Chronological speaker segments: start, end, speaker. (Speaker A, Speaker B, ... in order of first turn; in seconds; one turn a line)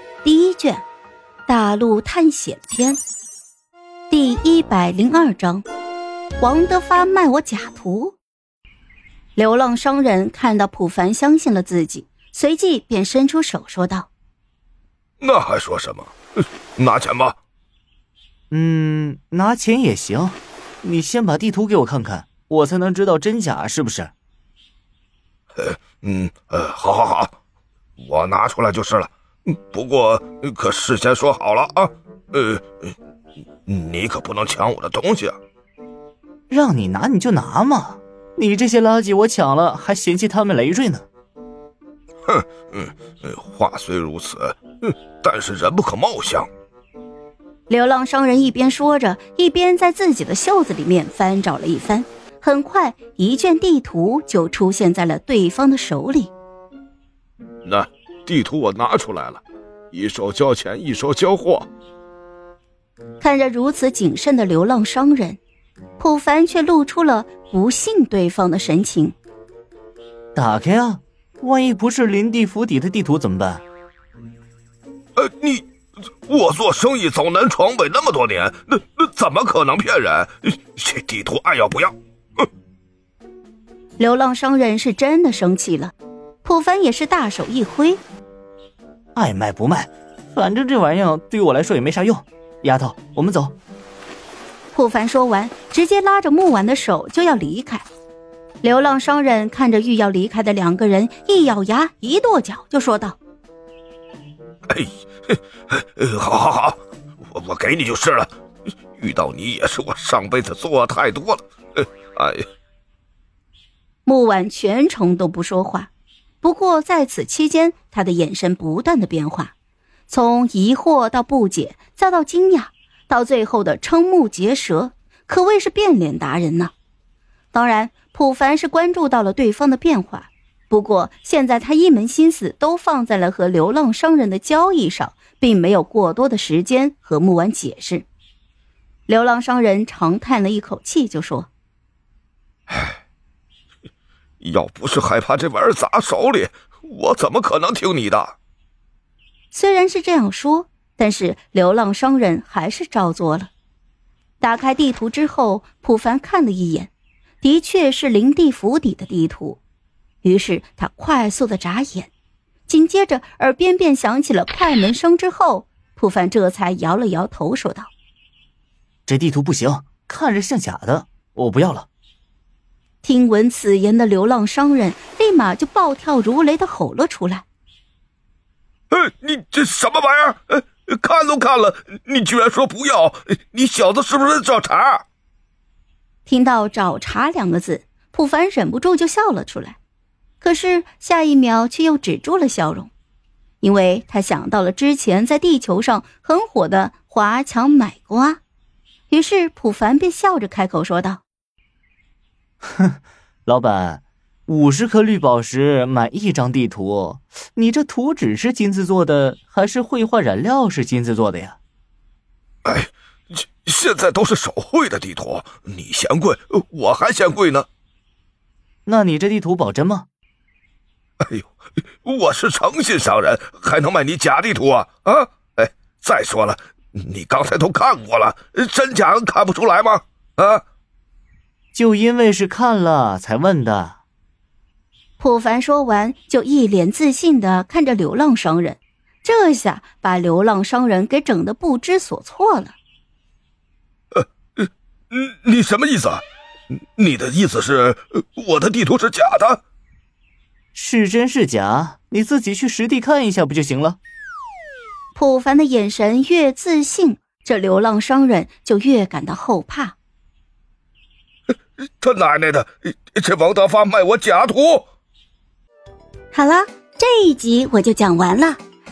Speaker A: 0.2-0.8
Speaker A: 1.5-3.0
Speaker A: 4.1-5.7
Speaker A: 6.4-8.2
Speaker A: 9.4-14.1
Speaker B: 15.2-16.1
Speaker B: 16.8-17.4
Speaker C: 18.5-24.1
Speaker B: 25.6-27.3
Speaker B: 28.0-32.9
Speaker B: 33.7-35.4
Speaker C: 36.5-41.1
Speaker B: 42.3-46.5
Speaker A: 47.7-56.3
Speaker B: 57.6-61.7
Speaker A: 63.2-65.4
Speaker A: 66.0-69.2
Speaker C: 70.3-73.6
Speaker B: 75.2-75.7
Speaker B: 76.3-82.5
Speaker A: 84.0-85.9
Speaker A: 86.4-88.0
Speaker C: 89.2-93.5
Speaker A: 94.7-97.9
Speaker A: 98.6-103.2
Speaker B: 104.7-108.3
Speaker B: 109.0-112.5
Speaker A: 114.0-115.9
Speaker A: 116.4-119.5
Speaker A: 120.1-126.7
Speaker A: 127.5-138.1
Speaker A: 139.1-141.5
Speaker B: 142.7-143.0
Speaker B: 144.4-148.3
Speaker A: 149.5-153.5
Speaker A: 154.4-159.6
Speaker A: 160.2-162.1
Speaker A: 162.7-167.9
Speaker C: 169.1-171.9
Speaker A: 173.0-177.4
Speaker B: 178.9-185.0
Speaker A: 186.3-189.8
Speaker A: 190.4-192.9
Speaker A: 193.6-198.4
Speaker A: 199.1-201.2
Speaker C: 202.6-211.6
Speaker B: 212.7-217.7
Speaker C: 218.9-220.1
Speaker B: 221.2-221.5
Speaker B: 222.1-230.6
Speaker C: 231.7-234.0
Speaker A: 235.2-242.8
Speaker B: 244.2-246.2
Speaker B: 247.0-249.6
Speaker C: 250.8-254.0
Speaker A: 255.2-259.9
Speaker B: 262.0-264.9
Speaker A: 266.3-268.6